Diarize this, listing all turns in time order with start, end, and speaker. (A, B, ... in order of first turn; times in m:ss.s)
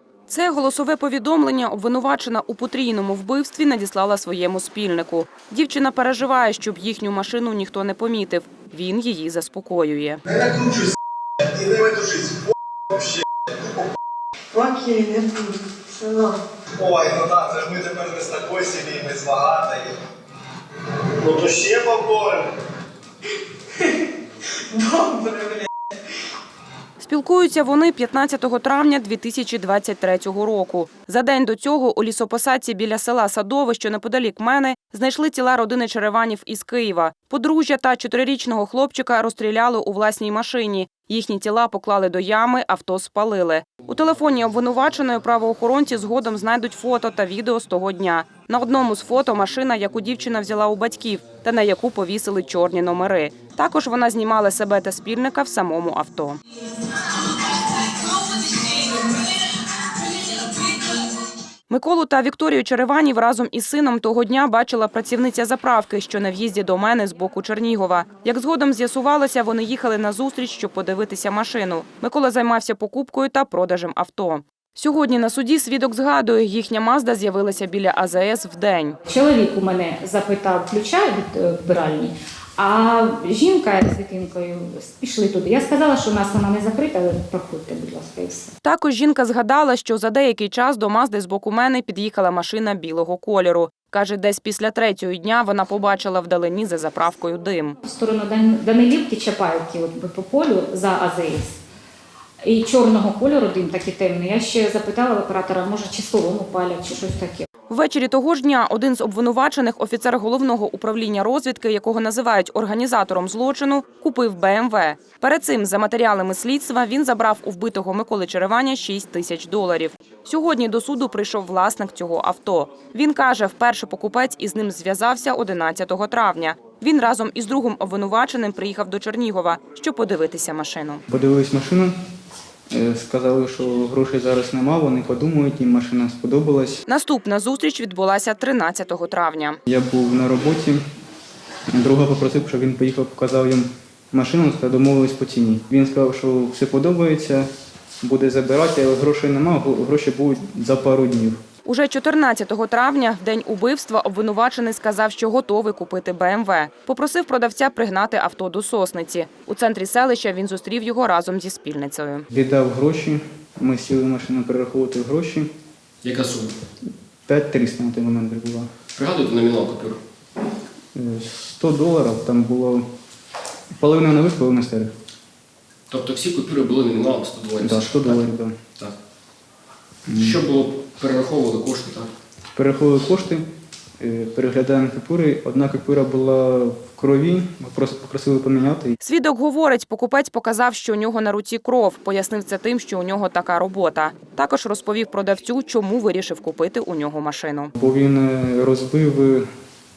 0:00.3-0:10.2 A
0:10.3-0:10.9 B
0:11.5-0:12.4 B
0:12.9-0:13.8 B
0:14.5-0:16.4 C
0:16.8-0:20.0 B
0:21.2-0:22.5 B
0:24.7-0:25.7 C
0:27.0-0:56.4 A
0:58.0-0:59.2 A
1:00.0-1:00.6 A
1:01.7-1:19.0 A
1:19.1-1:28.5 D
1:28.6-1:37.8 A
1:37.8-1:41.6 D
1:42.4-1:47.5 D
1:47.7-2:11.0 A
2:11.1-2:11.9 E
2:12.7-2:16.8 E
2:16.9-2:19.6 A
2:19.7-2:20.8 E
2:21.8-2:27.5 E
2:28.0-2:31.4 E
2:31.6-2:42.3 A
2:42.3-2:45.5 E
2:46.0-2:46.5 F
2:47.3-2:48.7 E
2:49.0-2:50.0 F
2:51.0-2:52.8 E
2:53.8-2:54.9 E
2:55.9-2:58.2 F
2:57.6-2:58.6 E
3:00.1-3:00.4 E
3:00.1-3:02.1 F
3:02.5-3:03.5 E
3:04.0-3:09.0 E
3:09.0-3:17.7 A
3:17.8-3:19.5 E